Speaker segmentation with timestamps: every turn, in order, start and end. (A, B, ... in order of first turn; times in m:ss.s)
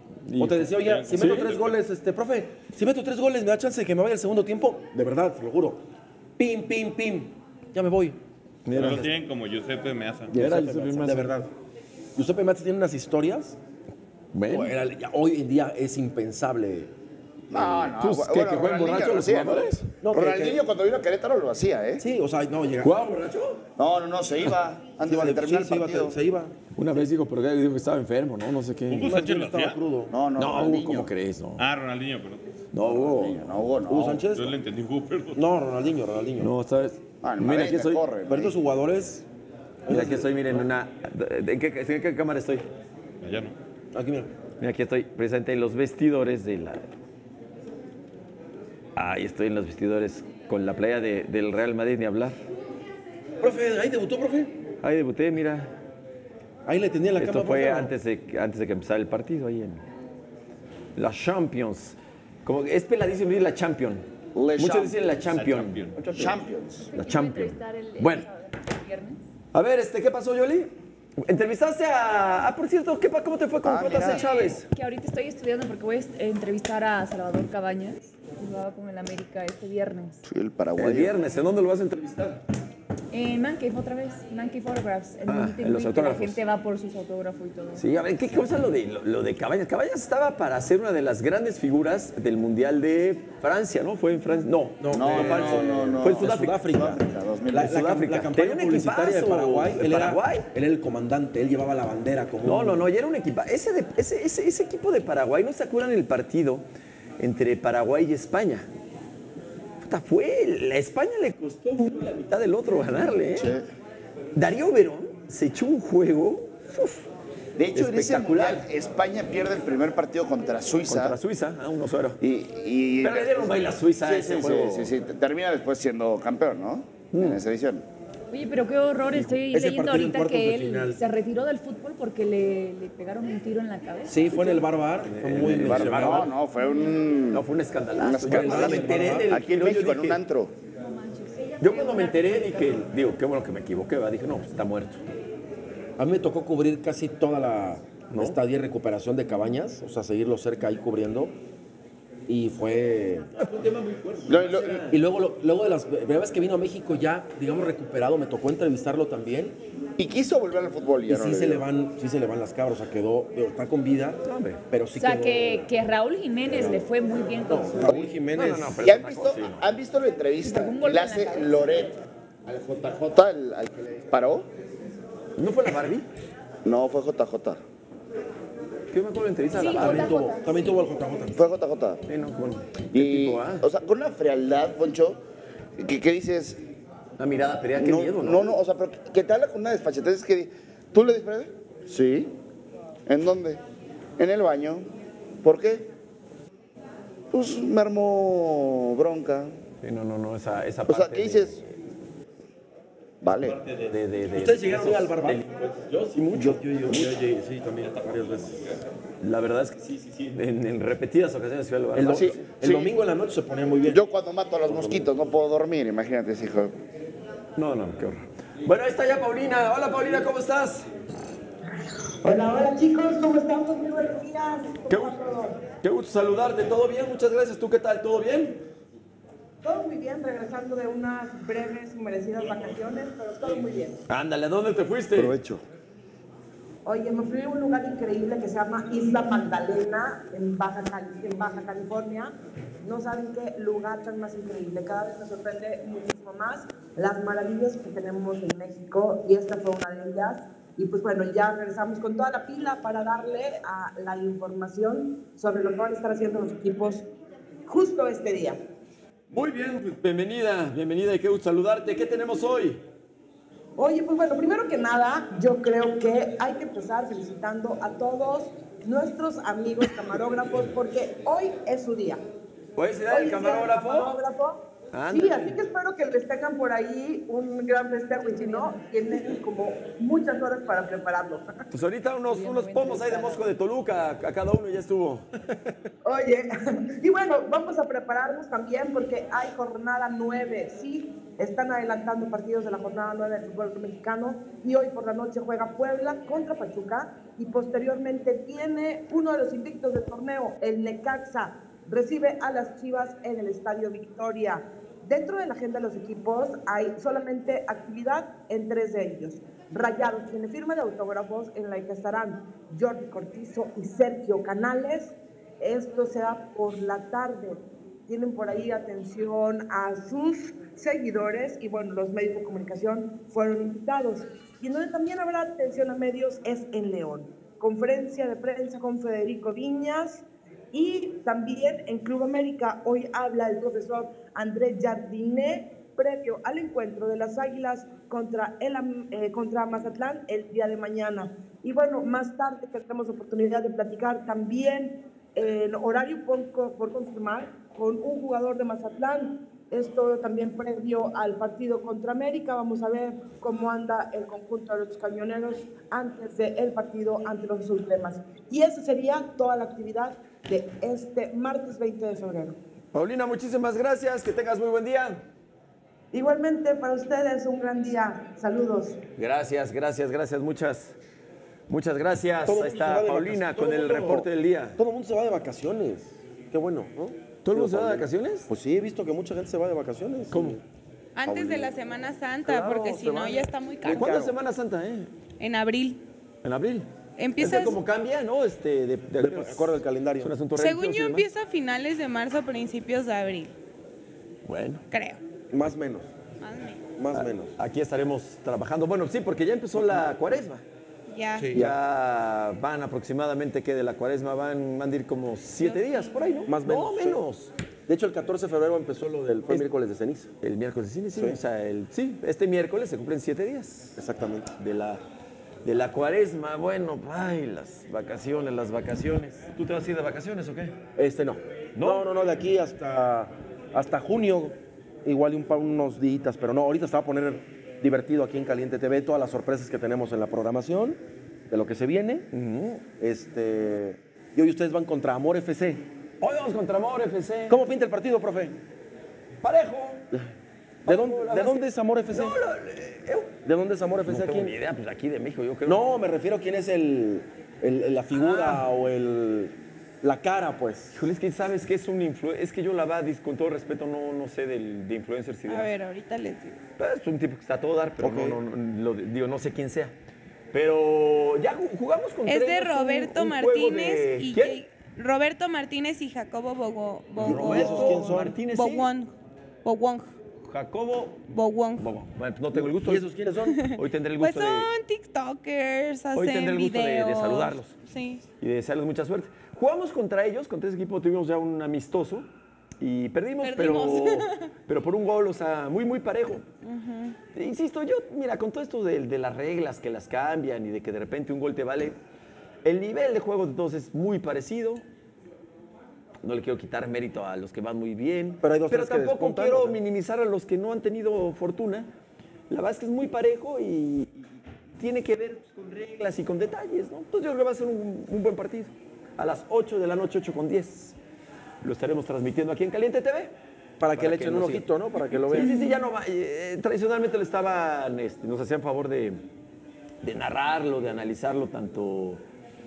0:00.2-0:01.5 A
0:00.4-0:05.8 B
0:00.7-0:01.8 C
0:06.4-0:08.2 B
0:08.6-0:09.1 A
0:08.7-0:09.1 B
0:08.7-0:10.3 C
0:10.3-0:11.3 A
0:10.3-0:11.5 B
0:12.2-0:13.6 B
0:14.3-0:14.7 A
0:14.5-0:16.9 B
0:17.5-0:22.0 D
0:17.5-0:19.9 A
0:20.0-0:20.6 B
0:22.0-0:23.0 B
0:22.8-0:23.6 A
0:23.8-0:26.2 D
0:25.0-0:26.5 B
0:26.7-0:29.1 A
0:28.9-0:30.1 B
0:28.9-0:29.8 C
0:30.1-0:31.1 D
0:30.4-0:31.7 A
0:31.6-0:32.4 C
0:32.7-0:33.4 A
0:32.8-0:34.2 D
0:33.9-0:34.6 B
0:34.2-0:35.5 C
0:35.3-0:36.5 B
0:36.4-0:38.0 A
0:37.2-0:38.6 D
0:38.3-0:39.2 B
0:39.8-0:40.6 B
0:39.9-0:42.7 A
0:43.2-0:43.5 C
0:43.9-0:44.3 B
0:44.6-0:46.9 A
0:48.9-0:52.4 A
0:53.4-0:54.5 B
0:54.8-0:55.7 A
0:56.6-0:57.9 B
0:57.2-0:59.8 A
1:01.0-1:04.0 A
1:04.3-1:05.0 D
1:04.6-1:06.4 A
1:05.2-1:06.0 C
1:06.1-1:06.9 D
1:06.8-1:09.2 E
1:06.9-1:08.3 A
1:09.5-1:14.6 A
1:13.6-1:14.3 D
1:13.9-1:20.2 E
1:20.2-1:21.1 D
1:20.8-1:22.4 A
1:23.1-1:27.8 E
1:25.2-1:26.4 A
1:27.8-1:36.6 A
1:34.8-1:42.9 B
1:34.9-1:37.8 D
1:37.6-1:40.4 A
1:42.4-1:46.6 A
1:47.2-1:48.7 A
1:49.8-1:53.6 A
1:53.3-1:53.6 D
1:54.4-1:57.0 A
1:57.6-2:01.2 D
1:57.7-1:58.6 A
2:00.8-2:02.2 A
2:02.2-2:07.8 D
2:03.0-2:04.9 A
2:07.1-2:07.4 A
2:08.3-2:14.6 E
2:09.5-2:11.0 B
2:14.1-2:16.3 B
2:15.0-2:16.3 A
2:15.5-2:17.4 D
2:17.3-2:20.2 A
2:18.0-2:20.5 D
2:18.3-2:19.3 B
2:20.8-2:22.7 E
2:21.6-2:25.0 A
2:26.0-2:31.3 B
2:28.1-2:28.4 A
2:32.3-2:33.3 B
2:33.3-2:35.0 A
2:34.3-2:34.8 D
2:34.9-2:39.6 B
2:40.0-2:41.7 D
2:41.1-2:45.7 B
2:44.2-2:44.6 A
2:44.9-2:47.9 E
2:46.4-2:46.8 B
2:47.4-2:48.8 B
2:47.8-2:48.0 D
2:48.3-2:49.6 A
2:48.8-2:54.5 D
2:50.4-2:51.6 E
2:55.4-2:56.1 A
2:56.6-2:57.6 D
2:58.9-3:00.1 A
2:59.5-3:00.7 E
2:59.7-3:01.4 B
3:01.3-3:02.0 D
3:02.1-3:03.6 A
3:02.9-3:05.2 D
3:05.8-3:06.6 D
3:07.2-3:08.5 A
3:07.8-3:12.3 D
3:13.1-3:13.6 D
3:14.2-3:14.9 D
3:15.4-3:15.9 D
3:17.3-3:19.5 D
3:19.8-3:21.7 A
3:20.9-3:21.6 D
3:23.2-3:23.6 D
3:23.4-3:23.8 C
3:23.9-3:27.1 A
3:24.3-3:28.8 B
3:29.2-3:32.3 A
3:31.9-3:34.0 B
3:32.1-3:32.9 D
3:33.8-3:36.7 D
3:34.7-3:35.0 B
3:37.6-3:40.8 A
3:42.2-3:45.6 F
3:44.9-3:48.6 A
3:49.6-3:54.0 F
3:54.1-3:55.4 A
3:55.1-3:55.6 D
3:56.8-4:17.1 F
4:17.6-4:18.6 F
4:19.3-4:22.8 A
4:23.8-4:32.2 F
4:32.8-4:34.1 A
4:33.1-4:41.5 F
4:34.9-4:35.6 A
4:38.3-4:38.8 E
4:41.7-4:45.3 A
4:42.3-4:43.4 E
4:46.0-6:02.6 F
6:02.9-6:05.2 A
6:06.1-6:09.0 F
6:09.2-6:11.0 A
6:11.7-6:14.8 A
6:12.4-6:20.6 B
6:17.4-6:18.5 A
6:20.3-6:20.6 A
6:21.2-6:24.2 G
6:21.3-6:21.7 D
6:22.4-6:24.3 B
6:23.8-6:25.1 A
6:25.4-6:26.0 G
6:26.4-6:31.3 A
6:27.2-6:27.8 G
6:29.2-6:30.3 B
6:30.5-6:33.5 G
6:34.4-6:34.8 A
6:34.9-6:35.2 G
6:35.5-6:36.1 B
6:36.4-6:36.8 G
6:37.0-6:37.5 B
6:37.1-6:40.6 A
6:41.1-6:41.6 G
6:41.3-6:41.7 B
6:41.5-6:47.5 A
6:45.6-6:46.5 G
6:46.5-6:47.2 B
6:47.9-6:50.3 B
6:50.4-6:54.0 A
6:54.0-6:54.5 B
6:54.6-6:55.0 A
6:55.6-7:00.8 A
7:01.0-7:12.3 B
7:01.7-7:02.0 A
7:12.3-7:12.8 A
7:13.0-7:15.8 B
7:16.2-7:17.6 A
7:17.5-7:18.6 B
7:19.4-7:20.0 A
7:20.8-7:23.4 A
7:20.8-7:22.4 B
7:23.4-7:24.5 B
7:24.0-7:25.9 A
7:25.6-7:31.0 B
7:30.9-7:35.7 A
7:35.5-7:36.6 G
7:36.8-7:39.9 A
7:38.0-7:38.4 B
7:40.5-7:44.6 A
7:42.2-7:49.1 G
7:47.2-7:48.4 B
7:47.2-7:48.9 A
7:49.6-7:50.1 G
7:50.4-7:51.2 A
7:51.3-7:51.8 G
7:51.8-7:53.1 A
7:52.5-7:53.6 B
7:53.6-7:58.2 G
7:53.7-7:54.7 A
7:56.1-7:57.7 A
7:58.4-8:02.3 A
8:02.8-8:06.4 A
8:03.4-8:04.5 G
8:06.6-8:07.2 G
8:07.3-8:12.0 A
8:12.6-8:14.8 A
8:16.2-8:21.9 A
8:18.4-8:19.8 B
8:22.5-8:31.0 A
8:31.6-8:33.3 A
8:33.8-8:35.6 B
8:33.9-8:34.7 A
8:35.3-8:39.2 A
8:35.3-8:35.8 E
8:40.0-8:42.2 A